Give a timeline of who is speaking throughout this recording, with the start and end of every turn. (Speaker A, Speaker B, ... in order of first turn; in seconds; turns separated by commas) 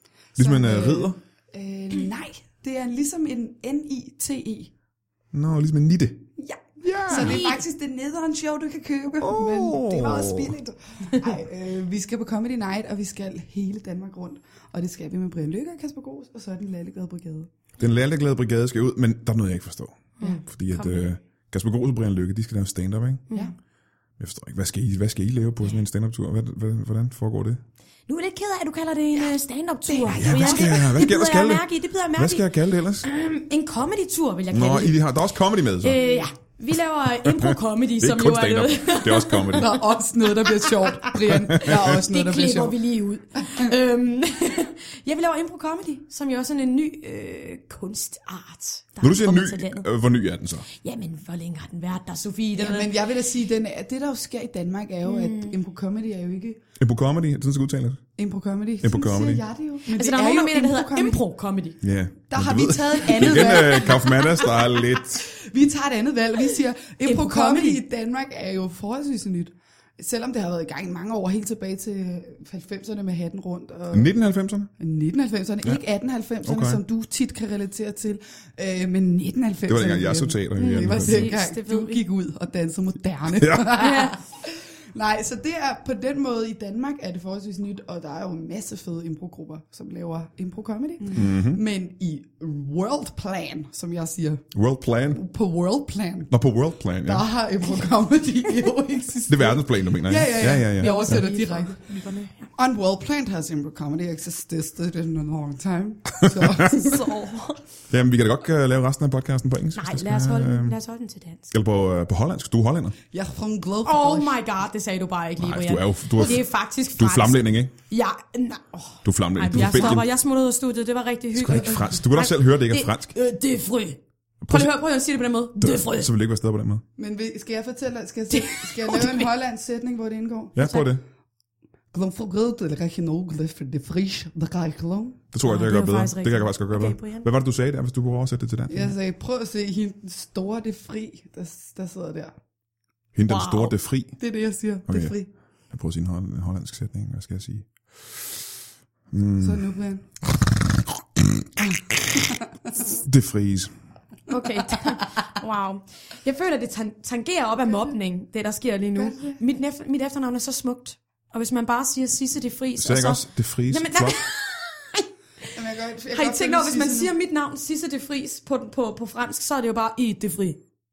Speaker A: 0.3-4.7, Speaker B: 0.4-1.2, Speaker B: 5.3-6.2, Speaker A: 6.5-17.5, Speaker B: 6.8-7.5, Speaker C: 7.1-7.6, Speaker B: 9.2-10.6, Speaker B: 17.8-23.2, Speaker C: 20.2-21.2, Speaker B: 24.2-27.6, Speaker C: 28.1-32.5, Speaker A: 29.9-30.9, Speaker B: 30.1-33.1, Speaker C: 33.0-35.2, Speaker B: 34.5-36.0, Speaker C: 35.8-49.9, Speaker A: 36.0-36.3, Speaker B: 37.3-39.8, Speaker A: 39.5-42.8, Speaker B: 41.3-41.9, Speaker A: 43.4-43.8, Speaker B: 49.0-50.7, Speaker C: 50.7-53.0, Speaker A: 52.5-56.6, Speaker C: 55.0-55.6, Speaker B: 56.8-58.0, Speaker A: 58.2-61.2, Speaker B: 58.8-59.4, Speaker C: 59.9-61.8, Speaker B: 61.8-65.3, Speaker A: 62.3-64.5, Speaker C: 63.1-64.3, Speaker A: 65.2-74.1, Speaker C: 67.0-67.8, Speaker B: 73.9-74.7, Speaker A: 74.8-94.5, Speaker B: 76.4-76.8, Speaker B: 79.7-81.3, Speaker C: 80.6-82.0, Speaker B: 83.4-83.7, Speaker C: 83.7-84.2, Speaker B: 91.1-91.6, Speaker B: 94.5-95.2, Speaker A: 95.1-96.3, Speaker B: 96.3-97.3, Speaker A: 97.0-101.9, Speaker B: 99.3-101.3, Speaker C: 100.5-102.5, Speaker A: 102.6-107.2, Speaker B: 106.1-106.7, Speaker C: 106.7-107.6, Speaker B: 107.9-110.8, Speaker C: 109.8-111.5, Speaker B: 111.5-113.0, Speaker A: 113.1-114.4, Speaker C: 113.8-126.1, Speaker B: 115.4-117.7, Speaker B: 119.0-120.1, Speaker B: 121.3-123.2, Speaker B: 124.4-124.7, Speaker B: 125.6-126.8, Speaker A: 127.0-130.6, Speaker C: 128.3-129.3, Speaker B: 130.6-131.0, Speaker C: 130.6-130.9, Speaker A: 131.9-135.2, Speaker B: 135.3-138.9, Speaker C: 135.4-137.3, Speaker A: 138.7-142.3, Speaker B: 143.1-144.2, Speaker C: 143.3-143.7, Speaker A: 144.2-145.3, Speaker B: 144.9-145.2, Speaker B: 145.7-148.4, Speaker B: 149.1-149.7, Speaker A: 149.4-150.1, Speaker B: 151.2-151.4, Speaker A: 152.2-152.7, Speaker B: 152.8-153.7, Speaker C: 154.3-165.1, Speaker A: 157.7-158.0, Speaker A: 158.9-159.4, Speaker B: 162.8-164.2, Speaker A: 165.5-167.1, Speaker C: 166.1-170.6